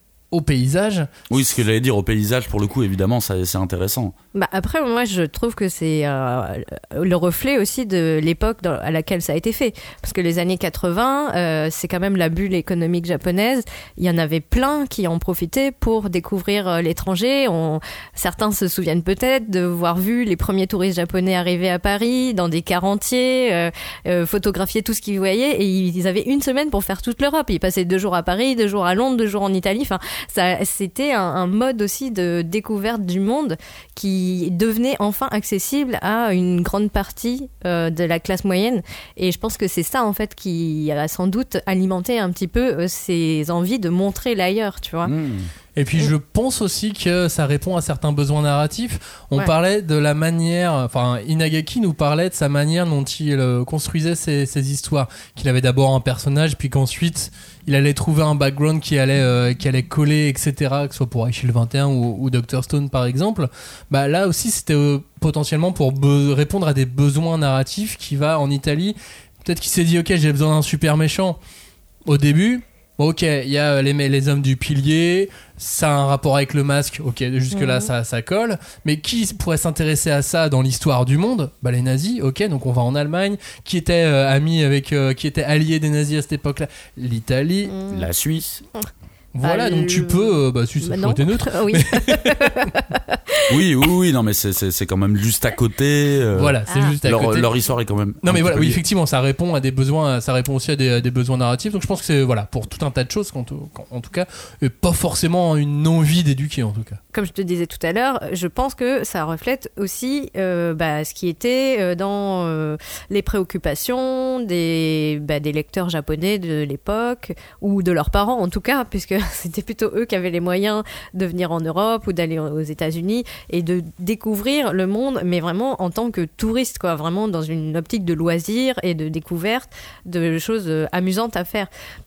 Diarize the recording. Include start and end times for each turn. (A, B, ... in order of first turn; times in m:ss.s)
0:00.3-0:01.1 A
0:01.3-0:04.1 B
0:04.3-0:45.1 C
0:45.0-0:45.5 B
0:45.8-1:11.4 A
1:12.1-1:27.7 A
1:17.5-1:17.9 C
1:27.7-1:28.1 C
1:27.9-1:28.6 B
1:29.4-1:32.7 A
1:29.4-1:33.6 C
1:33.5-1:38.8 B
1:36.4-1:37.5 A
1:36.7-1:37.0 C
1:38.2-1:47.0 A
1:47.1-2:11.7 C